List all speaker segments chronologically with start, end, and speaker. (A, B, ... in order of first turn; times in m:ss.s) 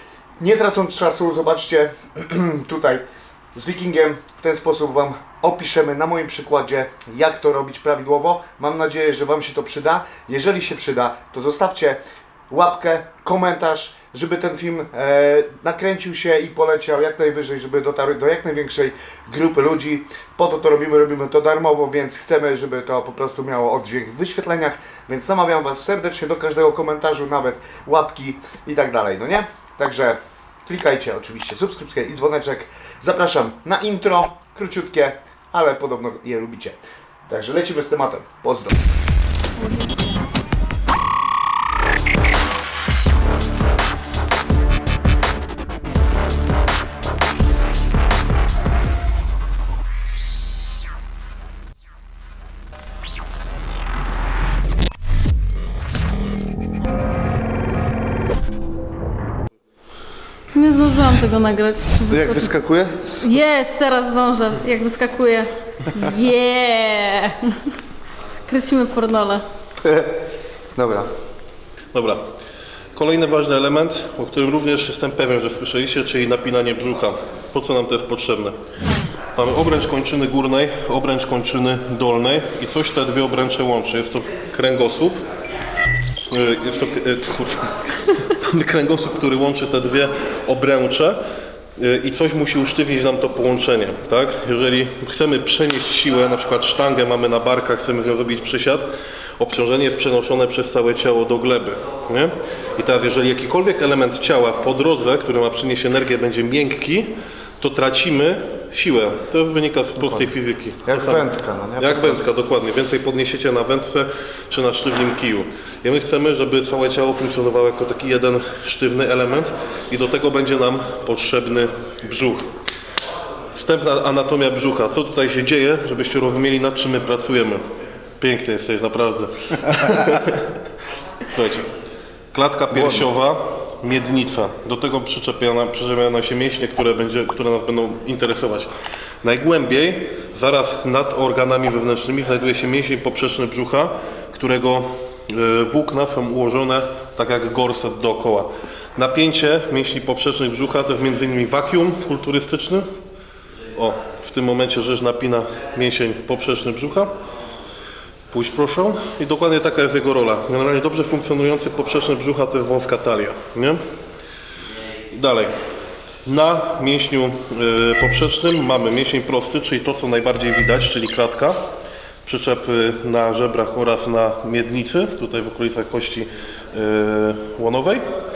0:00.4-0:03.0 A
0:03.5-0:12.0 A
0:12.5-0:38.8 A
0:39.7-0:40.1 B
1:00.5-1:02.5 B
1:02.1-1:03.2 A
1:03.2-1:07.7 B
1:08.4-1:09.4 B
1:09.8-1:10.1 A
1:10.7-1:11.1 A
1:11.9-1:12.2 C
1:12.9-1:18.6 C
1:19.3-1:25.3 C
1:26.3-1:31.2 C
1:31.8-1:51.3 C
1:50.0-1:50.3 A
1:50.8-1:52.2 A
1:51.8-2:02.5 C
2:03.5-2:07.6 C
2:08.2-2:10.5 C
2:11.3-2:11.7 C
2:12.3-2:18.7 C
2:12.8-2:13.0 A
2:19.2-2:32.9 C
2:33.7-2:37.1 C
2:38.3-2:43.8 C
2:45.1-2:45.5 C
2:46.2-2:51.6 C
2:52.2-2:58.0 C